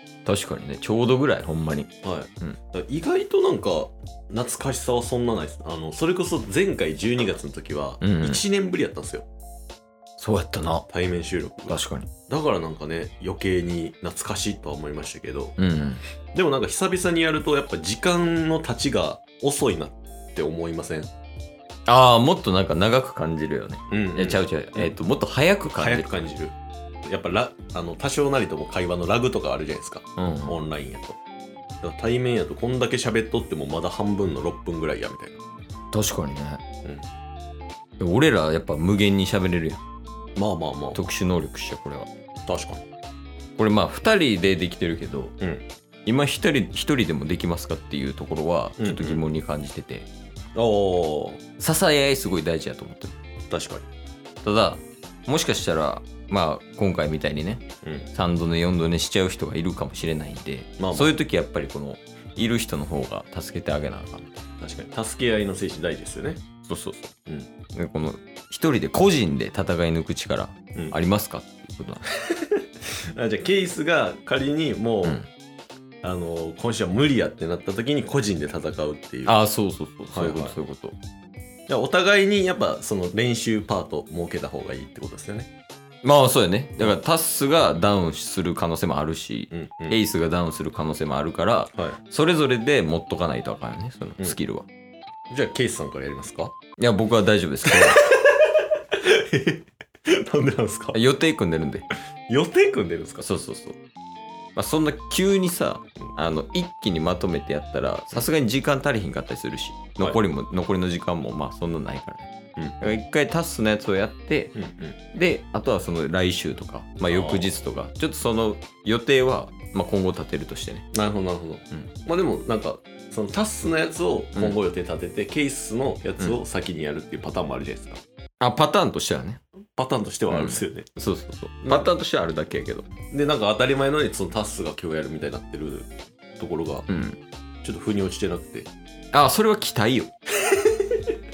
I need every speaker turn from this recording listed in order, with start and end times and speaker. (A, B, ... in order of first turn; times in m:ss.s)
0:00.2-0:01.9 A
0:02.0-0:09.2 B
0:08.0-0:08.4 A
0:10.2-0:10.8 A
0:10.9-0:15.6 B
0:11.7-0:12.1 A
0:15.6-0:16.0 A
0:16.3-0:21.1 B
0:21.9-0:26.2 A
0:23.9-0:25.0 B
0:25.7-0:31.2 B
0:30.2-0:30.6 A
0:31.8-0:35.4 B
0:35.9-0:36.6 A
0:38.0-0:39.8 A
0:40.4-0:41.0 B
0:40.9-0:42.1 A
0:42.5-0:42.8 B
0:43.6-0:45.3 A
0:46.0-0:50.1 A
0:48.8-0:49.2 B
0:50.5-0:51.4 B
0:51.6-0:53.1 A
0:53.5-0:53.8 B
0:54.4-1:04.3 A
0:57.8-0:58.1 B
1:00.8-1:01.1 B
1:04.6-1:06.4 B
1:06.6-1:07.1 A
1:07.7-1:12.0 A
1:12.3-1:12.6 B
1:13.1-1:15.2 B
1:15.0-1:15.3 A
1:16.0-1:19.4 B
1:19.2-1:21.0 A
1:20.1-1:20.6 B
1:21.7-1:25.5 B
1:26.0-1:34.6 A
1:29.5-1:30.0 B
1:35.3-1:36.6 B
1:36.8-1:38.0 A
1:37.6-1:41.0 B
1:40.9-1:41.9 A
1:42.3-1:43.3 B
1:43.2-1:43.8 A
1:44.6-1:52.3 A
1:52.8-1:54.5 A
1:54.5-1:55.0 B
1:55.1-2:00.9 A
1:57.1-1:57.6 B
2:00.9-2:08.0 B
2:08.4-2:09.4 A
2:09.8-2:10.9 B
2:10.3-2:12.9 A
2:11.6-2:11.9 B
2:13.1-2:16.9 B
2:16.9-2:17.2 A
2:17.6-2:18.7 B
2:19.1-2:20.1 A
2:20.5-2:21.0 B